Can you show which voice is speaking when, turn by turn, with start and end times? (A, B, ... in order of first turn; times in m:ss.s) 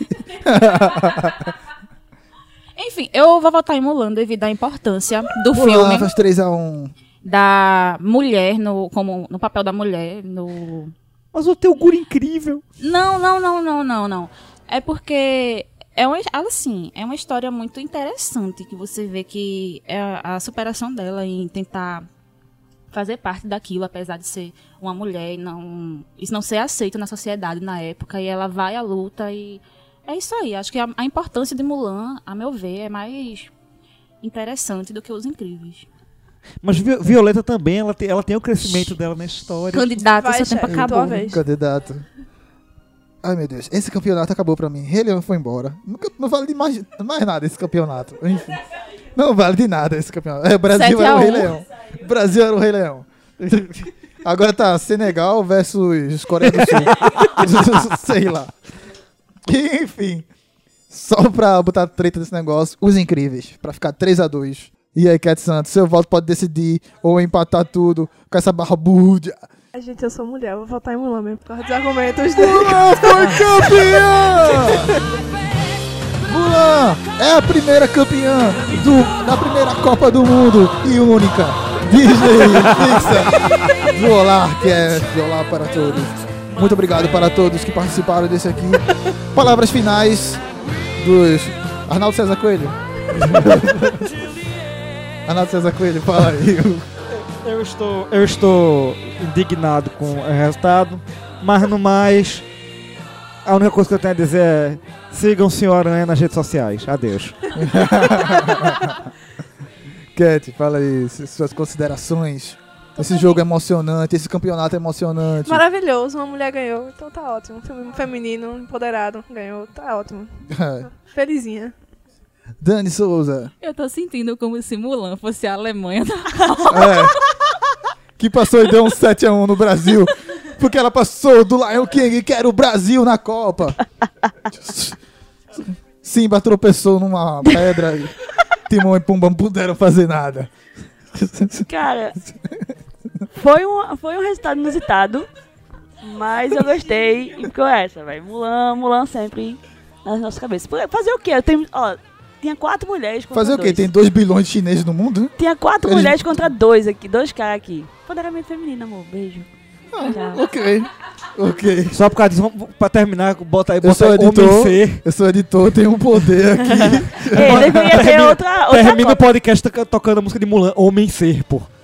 0:00.3-0:01.5 A
0:02.8-0:06.1 B
0:05.5-0:06.9 A
0:07.2-0:10.9 B
0:11.3-0:12.6 C
0:12.8-0:22.0 B
0:22.9-0:33.5 B
0:34.2-0:35.9 B
0:36.6-0:40.0 C
0:38.6-0:38.9 B
0:39.7-0:41.3 B
0:40.2-0:41.4 D
0:40.9-0:42.0 A
0:43.2-0:48.6 A
0:49.1-0:58.5 A
0:50.7-0:51.6 B
0:56.5-0:57.3 C
0:59.5-1:00.2 A
1:00.9-1:09.4 A
1:09.7-1:13.6 D
1:12.3-1:14.9 A
1:16.2-1:30.4 A
1:22.7-1:23.7 C
1:31.0-1:34.0 A
1:33.1-1:34.0 C
1:35.3-1:36.8 A
1:37.4-1:42.4 C
1:43.4-1:47.3 C
1:47.5-1:49.0 A
1:47.7-1:48.7 D
1:50.1-1:55.6 A
1:55.4-2:00.3 D
2:00.5-2:00.9 A
2:01.0-2:01.7 D
2:02.6-2:03.5 A
2:03.6-2:07.1 B
2:06.7-2:07.2 A
2:08.2-2:13.8 A
2:14.5-2:15.0 A
2:15.6-2:18.1 A
2:18.7-2:20.5 A
2:21.1-2:21.7 A
2:21.7-2:22.2 E
2:22.2-2:22.6 A
2:23.4-2:25.3 E
2:26.0-2:33.9 E
2:33.3-2:36.2 A
2:35.4-2:39.5 E
2:39.9-2:42.0 A
2:40.1-2:40.4 E
2:41.9-2:45.0 C
2:43.8-2:48.1 A
2:46.6-2:49.2 E
2:47.4-2:51.7 C